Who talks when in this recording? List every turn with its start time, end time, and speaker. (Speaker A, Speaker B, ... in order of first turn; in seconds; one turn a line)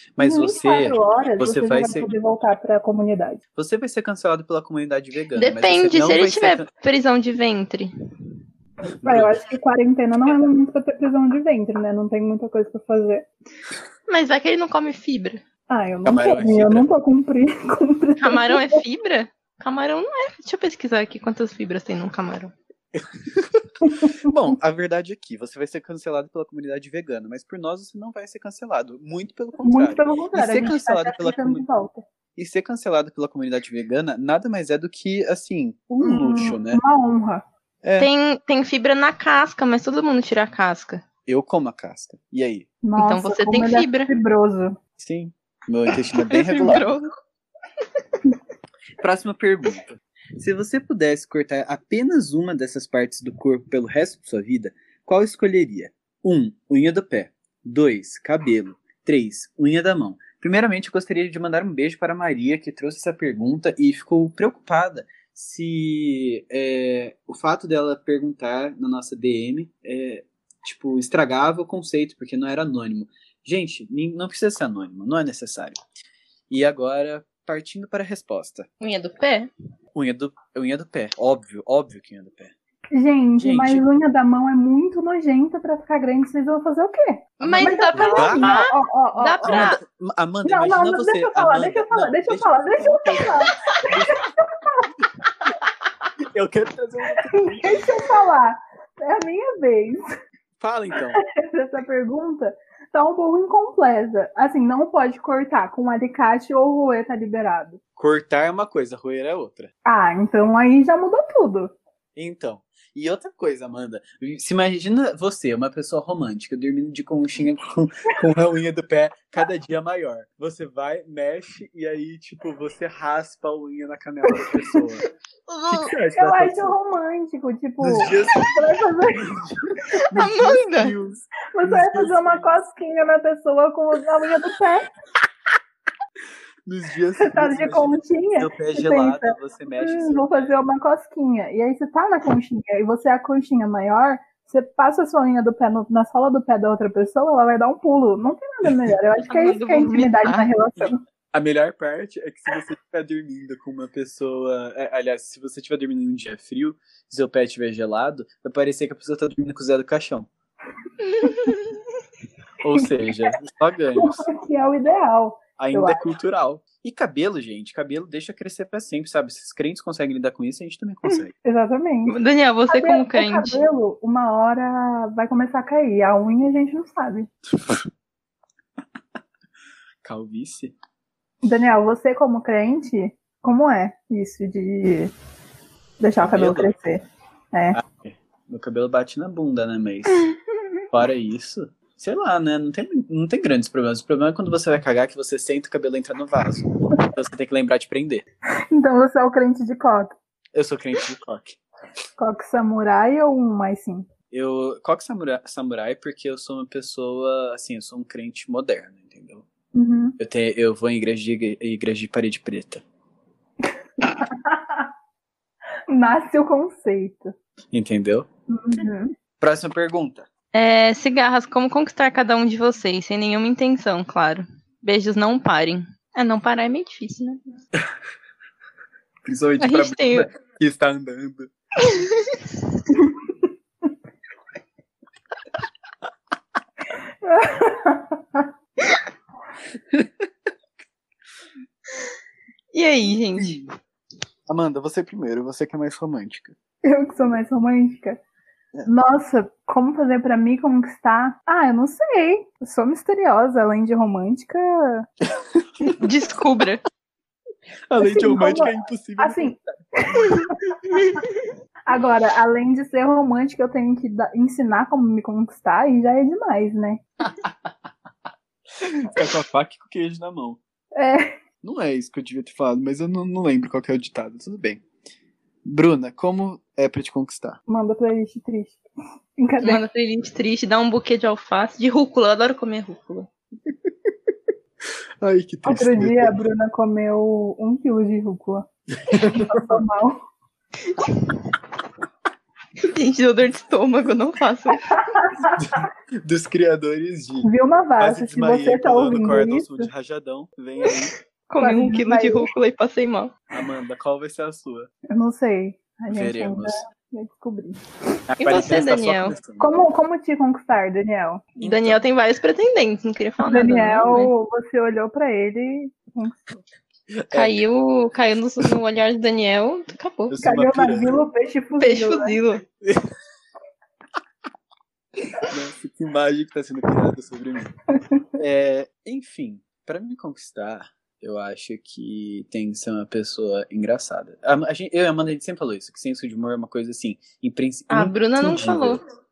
Speaker A: 0.1-2.1
Speaker B: 0.2-3.4
Speaker A: 3.5-6.7
Speaker C: 5.3-7.9
Speaker A: 9.0-9.4
Speaker B: 9.0-13.3
Speaker C: 14.1-15.4
Speaker B: 15.7-18.8
Speaker A: 16.0-16.9
Speaker C: 18.2-22.5
Speaker A: 22.9-31.6
Speaker B: 23.8-24.3
Speaker B: 29.6-32.0
Speaker A: 32.4-36.8
Speaker B: 36.0-37.4
Speaker A: 37.8-38.1
Speaker C: 38.0-41.0
Speaker A: 41.2-42.7
Speaker B: 42.8-44.8
Speaker C: 43.0-44.1
Speaker A: 45.0-47.0
Speaker C: 46.3-47.1
Speaker A: 49.0-75.8
Speaker A: 76.5-78.7
Speaker C: 78.8-79.5
Speaker A: 79.9-82.5
Speaker B: 82.9-89.7
Speaker A: 83.4-83.8
Speaker C: 87.4-89.8
Speaker A: 87.4-88.6
Speaker A: 89.4-94.3
Speaker B: 90.4-94.9
Speaker A: 96.2-97.9
Speaker B: 97.3-100.0
Speaker A: 100.6-101.2
Speaker B: 101.1-107.8
Speaker A: 108.0-109.7
Speaker B: 109.8-111.7
Speaker A: 112.2-125.1
Speaker B: 124.4-124.8
Speaker C: 125.5-125.9
Speaker A: 125.7-126.7
Speaker B: 126.1-129.3
Speaker A: 127.8-128.6
Speaker A: 129.1-132.6
Speaker C: 130.1-130.9
Speaker B: 131.5-134.9
Speaker A: 136.7-140.5
Speaker B: 137.2-151.0
Speaker C: 149.3-150.5
Speaker A: 151.3-160.3
Speaker C: 161.2-161.7
Speaker B: 161.2-161.5
Speaker A: 162.6-164.2
Speaker B: 163.9-166.1
Speaker A: 165.6-171.3
Speaker B: 171.4-172.2
Speaker C: 172.1-173.6
Speaker B: 172.7-177.3
Speaker A: 177.6-177.8
Speaker A: 180.0-180.7
Speaker B: 181.4-185.1
Speaker B: 186.0-187.0
Speaker A: 186.2-186.7
Speaker B: 187.5-187.8
Speaker A: 187.7-190.3
Speaker A: 190.9-198.2
Speaker B: 198.7-200.1
Speaker A: 200.5-201.6
Speaker B: 202.2-204.1
Speaker A: 204.3-209.4
Speaker B: 209.7-210.2
Speaker A: 210.2-212.8
Speaker B: 214.0-214.9
Speaker B: 215.9-217.3
Speaker A: 217.7-218.3
Speaker B: 218.5-219.1
Speaker A: 219.4-220.3
Speaker C: 220.5-227.4
Speaker A: 229.2-231.5
Speaker C: 229.6-230.3
Speaker C: 231.8-232.4
Speaker B: 237.2-238.5
Speaker A: 239.9-240.3
Speaker C: 242.7-243.6
Speaker A: 243.4-243.7
Speaker A: 244.5-246.5
Speaker B: 246.8-248.2
Speaker B: 248.8-255.1
Speaker A: 255.4-255.9
Speaker C: 255.9-256.8
Speaker A: 257.9-259.8
Speaker B: 258.0-260.6
Speaker B: 261.9-267.0
Speaker A: 267.4-267.7
Speaker A: 268.8-270.6
Speaker B: 270.9-271.3
Speaker A: 271.6-274.8
Speaker A: 275.6-277.6
Speaker B: 277.7-278.8
Speaker B: 279.4-279.8
Speaker C: 279.6-283.3
Speaker A: 285.2-286.4
Speaker B: 285.6-290.2
Speaker A: 289.0-289.8
Speaker C: 292.8-295.0
Speaker B: 294.9-295.8
Speaker A: 295.6-301.1
Speaker B: 297.4-299.9
Speaker C: 301.5-303.3
Speaker B: 301.6-302.5
Speaker A: 303.5-304.9
Speaker B: 305.1-307.8
Speaker A: 306.1-306.8
Speaker A: 308.3-309.8
Speaker C: 308.4-309.3
Speaker B: 309.6-311.6
Speaker A: 311.6-312.0
Speaker C: 311.6-314.3
Speaker B: 313.4-316.6
Speaker A: 317.1-317.6
Speaker C: 317.3-320.4
Speaker A: 320.3-321.2
Speaker B: 320.4-322.4
Speaker C: 321.8-322.6
Speaker A: 322.8-323.1
Speaker A: 325.4-327.7
Speaker A: 328.4-339.0
Speaker C: 337.9-339.0